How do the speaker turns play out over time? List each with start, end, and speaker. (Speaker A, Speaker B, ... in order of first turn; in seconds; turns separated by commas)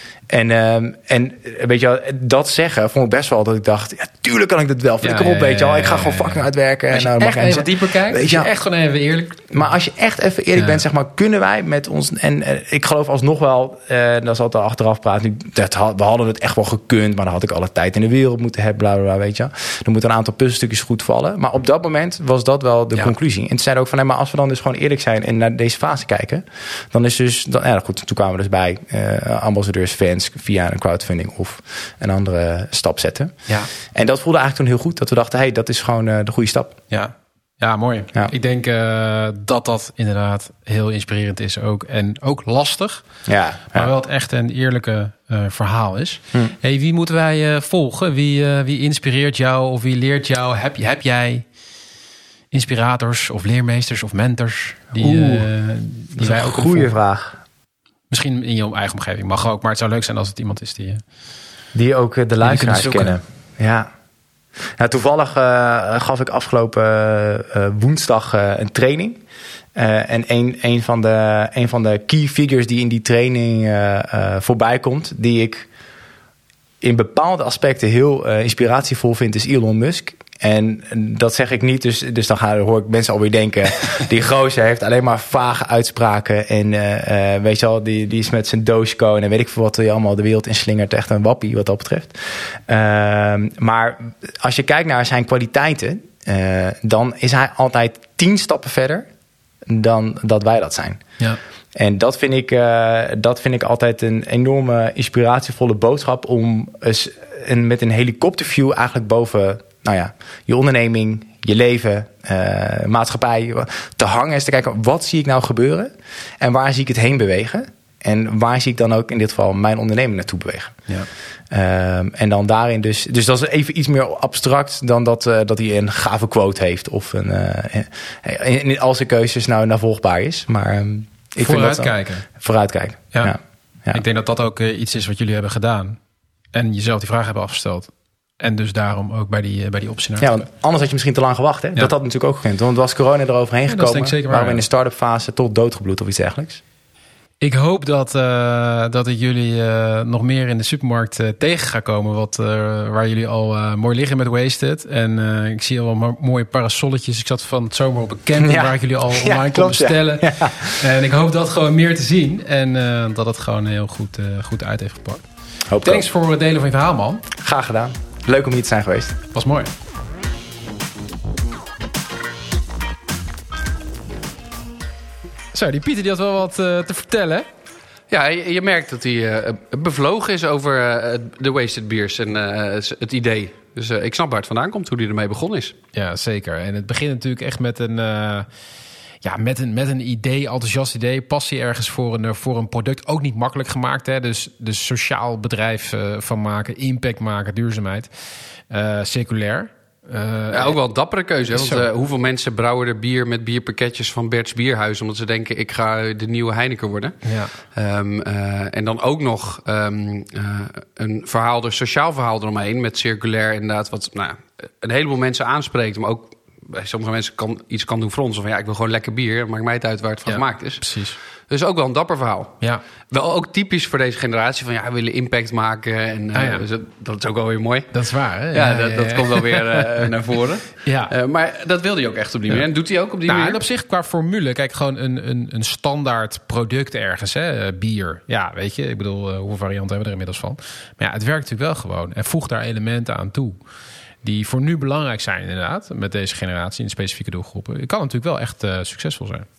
Speaker A: 0.3-8.5, Speaker B: 5.0-9.5, Speaker A: 9.5-36.8, Speaker B: 10.6-10.8, Speaker B: 36.9-51.5, Speaker A: 43.3-43.9, Speaker B: 52.5-56.9, Speaker A: 54.9-55.5, Speaker A: 56.2-57.4, Speaker B: 58.1-61.0, Speaker A: 61.7-63.9, Speaker B: 62.4-63.2, Speaker A: 64.7-69.2, Speaker A: 69.8-75.7, Speaker A: 76.8-99.1, Speaker A: 99.7-101.0, Speaker A: 101.8-120.8, Speaker A: 121.5-134.0, Speaker B: 131.4-132.3, Speaker B: 133.9-136.0, Speaker B: 136.5-140.4, Speaker A: 140.2-146.6, Speaker B: 143.7-144.6, Speaker B: 147.4-165.3, Speaker A: 158.4-160.8, Speaker A: 165.7-166.1, Speaker B: 165.8-167.3, Speaker A: 167.4-169.2, Speaker B: 169.3-169.7, Speaker B: 175.5-177.5, Speaker C: 178.1-185.8, Speaker B: 185.9-188.5, Speaker B: 189.2-200.8, Speaker C: 200.5-233.6, Speaker B: 201.5-201.8, Speaker B: 207.2-207.6, Speaker B: 220.3-221.2, Speaker B: 226.3-226.6, Speaker B: 227.9-230.1, Speaker B: 230.8-231.1, Speaker B: 233.2-243.7, Speaker B: 244.2-249.5